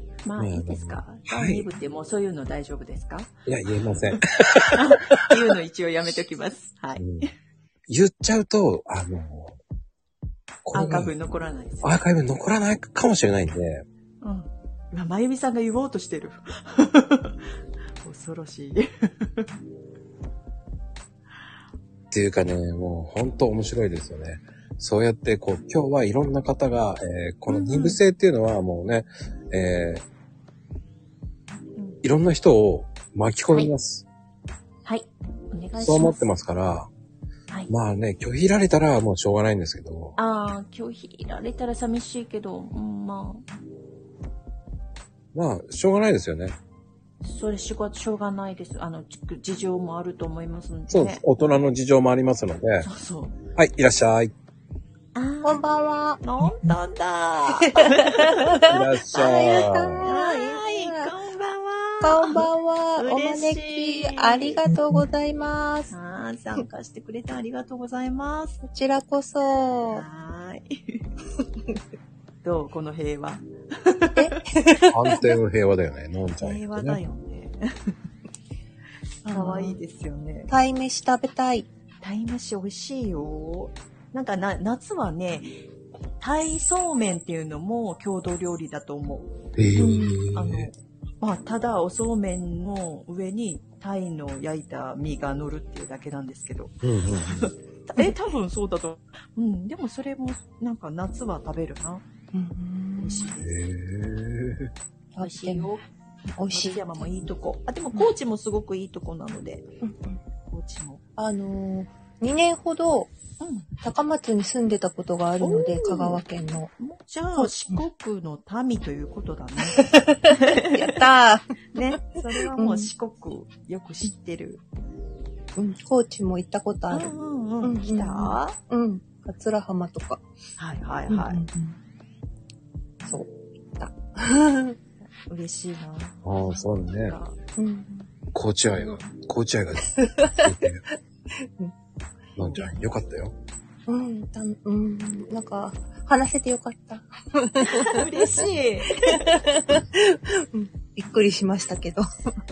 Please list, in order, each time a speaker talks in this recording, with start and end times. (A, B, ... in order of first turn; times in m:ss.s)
0:00.2-0:03.3 A
0:00.4-0:01.6 B
0:03.4-0:05.3 B
0:04.7-0:07.3 A
0:07.0-0:07.2 B
0:07.9-0:09.6 B
0:10.6-0:11.1 B
0:10.7-0:12.0 A
0:11.8-0:13.8 B
0:14.2-0:17.4 A
0:18.0-0:19.4 A
0:22.1-0:30.0 B
0:27.5-0:28.0 A
0:32.0-0:34.0 B
0:34.8-0:36.3 A
0:35.8-0:36.9 B
0:37.7-0:40.2 B
0:40.2-0:43.4 A
0:45.3-0:46.6 B
0:47.2-0:51.2 A
0:50.9-0:52.9 B
0:52.8-0:53.3 A
0:53.6-0:54.3 B
0:55.1-0:55.6 A
0:55.4-0:56.2 C
0:56.2-0:58.7 A
0:57.7-1:01.1 C
0:58.7-1:00.2 B
1:00.0-1:02.4 A
1:02.0-1:05.9 C
1:03.0-1:04.6 A
1:05.9-1:08.6 A
1:08.6-1:10.0 C
1:09.9-1:11.0 A
1:12.4-1:14.2 A
1:14.2-1:15.2 C
1:14.9-1:17.0 B
1:16.4-1:17.6 A
1:19.2-1:19.8 C
1:19.3-1:20.5 A
1:20.5-1:21.7 C
1:22.0-1:25.5 A
1:26.2-1:36.7 A
1:29.6-1:30.7 B
1:36.8-1:37.5 B
1:37.3-1:42.0 A
1:42.3-1:43.3 C
1:43.0-1:43.5 A
1:43.4-1:44.7 B
1:45.2-1:45.7 C
1:45.2-1:45.8 A
1:46.4-1:47.2 C
1:46.5-1:49.7 A
1:49.8-1:50.2 C
1:50.5-1:51.0 A
1:51.2-1:53.1 C
1:53.4-1:53.7 A
1:53.8-1:56.7 C
1:55.4-1:56.2 A
1:56.8-2:00.8 A
1:57.4-1:57.8 C
2:00.3-2:01.8 C
2:01.7-2:04.6 A
2:02.5-2:02.9 C
2:05.6-2:10.2 C
2:06.9-2:08.6 A
2:10.6-2:11.4 A
2:11.1-2:11.8 C
2:13.0-2:14.8 C
2:15.3-2:17.4 A
2:16.2-2:17.2 B
2:17.6-2:18.1 C
2:18.3-2:20.8 B
2:20.0-2:20.5 C
2:22.4-2:23.3 B
2:22.4-2:22.6 A
2:23.9-2:32.0 C
2:27.7-2:29.3 A